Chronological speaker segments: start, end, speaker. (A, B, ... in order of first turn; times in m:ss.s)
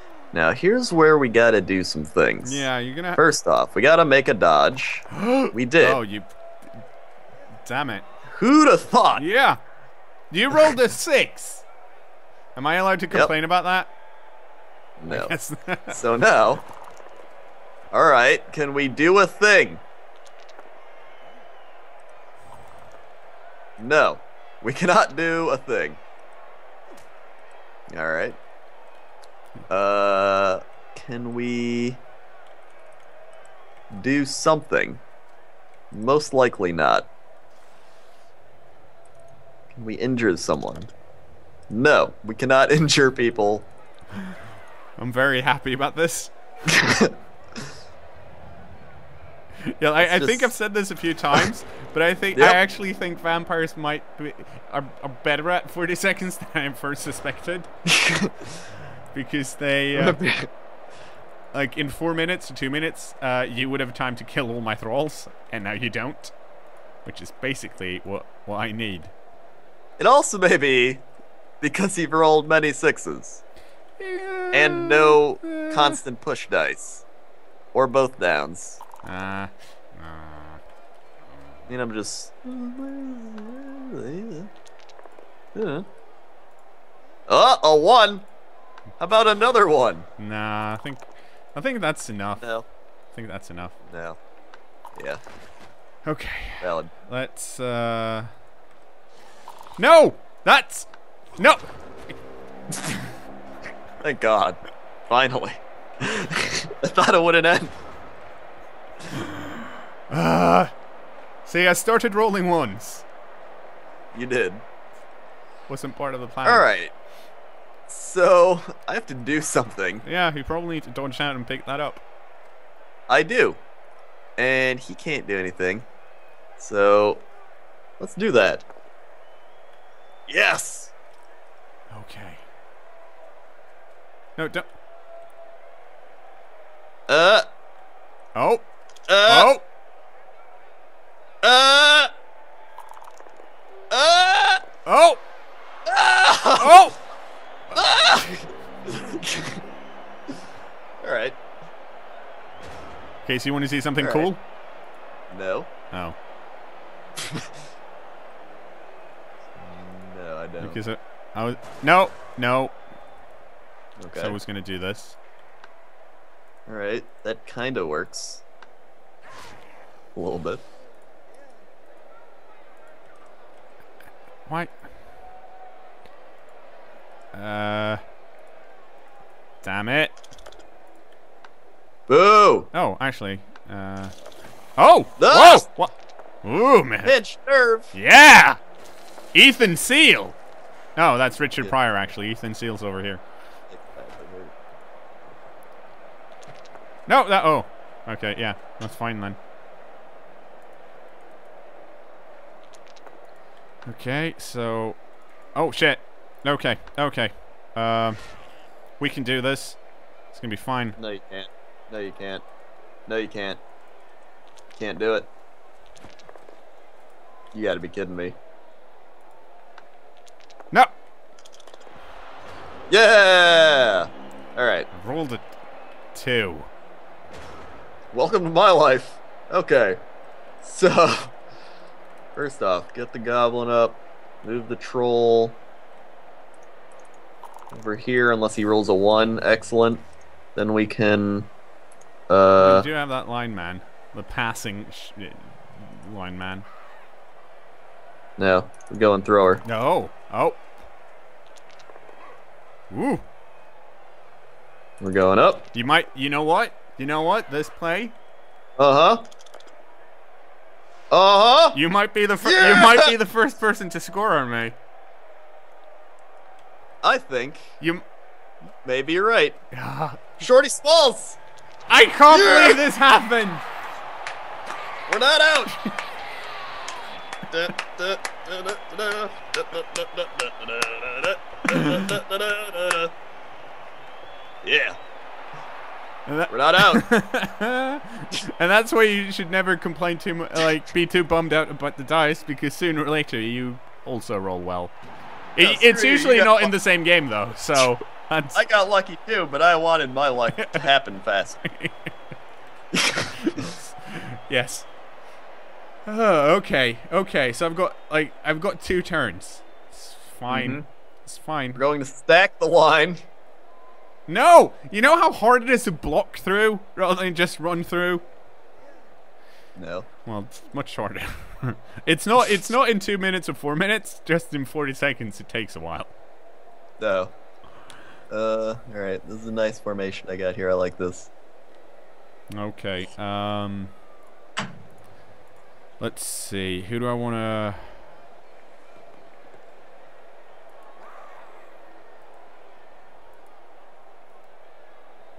0:00.3-0:06.0 A
0:02.4-0:03.2 B
0:05.1-0:06.3 B
0:07.6-0:08.0 B
0:08.4-0:09.2 A
0:09.2-0:09.6 B
0:10.3-0:11.6 B
0:12.6-0:13.9 B
0:15.0-0:15.4 A
0:15.1-0:16.0 B
0:15.9-0:16.6 A
0:17.9-0:19.8 A
0:23.8-0:26.0 A
0:27.9-0:28.4 A
0:29.7-0:32.0 A
0:33.9-0:35.0 A
0:35.9-0:37.1 A
0:39.8-0:40.9 A
0:41.7-0:43.7 A
0:45.0-0:46.3 B
0:46.7-0:47.6 A
0:49.7-0:57.7 B
0:50.0-0:50.5 A
0:52.4-0:52.6 A
0:57.9-0:58.5 A
0:59.1-1:00.2 B
0:59.9-1:00.5 A
1:01.5-1:06.3 B
1:07.0-1:09.1 B
1:10.0-1:11.0 A
1:11.6-1:13.4 A
1:14.0-1:16.0 B
1:14.5-1:17.0 A
1:17.7-1:18.8 A
1:19.0-1:20.6 B
1:21.7-1:24.5 A
1:25.6-1:25.9 A
1:27.3-1:28.3 A
1:29.0-1:30.1 A
1:30.2-1:32.4 B
1:32.4-1:32.7 A
1:33.1-1:33.8 B
1:33.9-1:34.2 A
1:35.0-1:35.2 A
1:36.0-1:38.3 B
1:36.6-1:36.9 A
1:39.8-1:41.7 B
1:42.7-1:43.1 B
1:44.0-1:47.7 A
1:49.1-1:50.7 B
1:51.4-1:53.0 B
1:54.1-1:54.6 A
1:55.7-1:56.7 B
1:56.4-1:56.9 A
1:57.9-2:00.0 A
2:00.0-2:02.0 B
2:03.1-2:03.6 A
2:04.4-2:05.9 A
2:06.6-2:07.2 A
2:08.0-2:08.7 A
2:10.3-2:10.9 A
2:11.9-2:12.4 B
2:14.4-2:14.7 B
2:17.1-2:17.5 A
2:18.4-2:18.7 B
2:19.1-2:19.5 A
2:19.3-2:19.6 B
2:21.4-2:22.1 A
2:23.9-2:24.6 A
2:24.9-2:25.2 B
2:25.9-2:26.9 A
2:26.6-2:27.0 B
2:27.7-2:29.6 A
2:31.0-2:31.4 A
2:33.2-2:34.4 B
2:34.0-2:34.3 A
2:35.3-2:35.7 A
2:39.6-2:40.8 A
2:40.6-2:42.8 B
2:44.0-2:44.4 A
2:44.2-2:45.2 B
2:46.7-2:48.4 A
2:50.2-2:50.6 A
2:54.5-2:54.7 B
2:57.3-2:58.0 B
2:59.6-3:00.1 B
3:02.1-3:02.7 A
3:02.7-3:04.1 B
3:04.8-3:05.9 B
3:05.2-3:05.7 A
3:06.4-3:07.1 B
3:07.0-3:07.9 A
3:07.9-3:08.6 B
3:09.3-3:10.4 B
3:11.0-3:13.2 B
3:13.7-3:14.6 A
3:17.1-3:19.4 B
3:23.9-3:25.0 B
3:25.6-3:28.2 B
3:29.0-3:29.8 B
3:30.3-3:31.0 B
3:31.0-3:32.4 A
3:33.1-3:33.6 A
3:34.8-3:35.3 A
3:37.5-3:38.4 A
3:42.9-3:44.9 A
3:44.9-3:45.4 B
3:46.1-3:46.7 B
3:48.1-3:50.0 A
3:50.6-3:51.4 A
3:52.4-3:55.6 A
3:57.7-4:00.0 A
4:00.6-4:01.5 A
4:02.3-4:02.9 A
4:02.6-4:06.7 B
4:08.4-4:09.6 A
4:09.6-4:10.6 B
4:12.9-4:13.2 B
4:15.0-4:15.7 A
4:15.7-4:18.2 B
4:18.8-4:19.2 A
4:21.1-4:21.8 A
4:21.7-4:24.8 B
4:22.4-4:23.2 A
4:27.0-4:27.7 A
4:28.8-4:29.6 A
4:29.7-4:30.4 B
4:30.4-4:31.4 A
4:31.9-4:33.6 B
4:32.3-4:32.8 A
4:35.1-4:35.8 A
4:37.5-4:43.1 A
4:41.8-4:42.0 B
4:44.6-4:45.0 A
4:46.3-4:54.9 B
4:46.5-4:47.0 A
4:55.6-4:58.6 B
4:55.6-4:56.7 A
4:58.6-5:01.6 A
5:00.6-5:00.9 B
5:01.6-5:02.1 B
5:02.9-5:03.7 A
5:03.2-5:04.9 B
5:06.1-5:11.8 B
5:10.5-5:10.9 A
5:11.8-5:13.2 A
5:14.3-5:18.2 B
5:19.8-5:20.1 A
5:20.3-5:26.1 B
5:27.0-5:27.3 A
5:28.3-5:31.3 A
5:32.5-5:33.9 B
5:36.0-5:38.0 B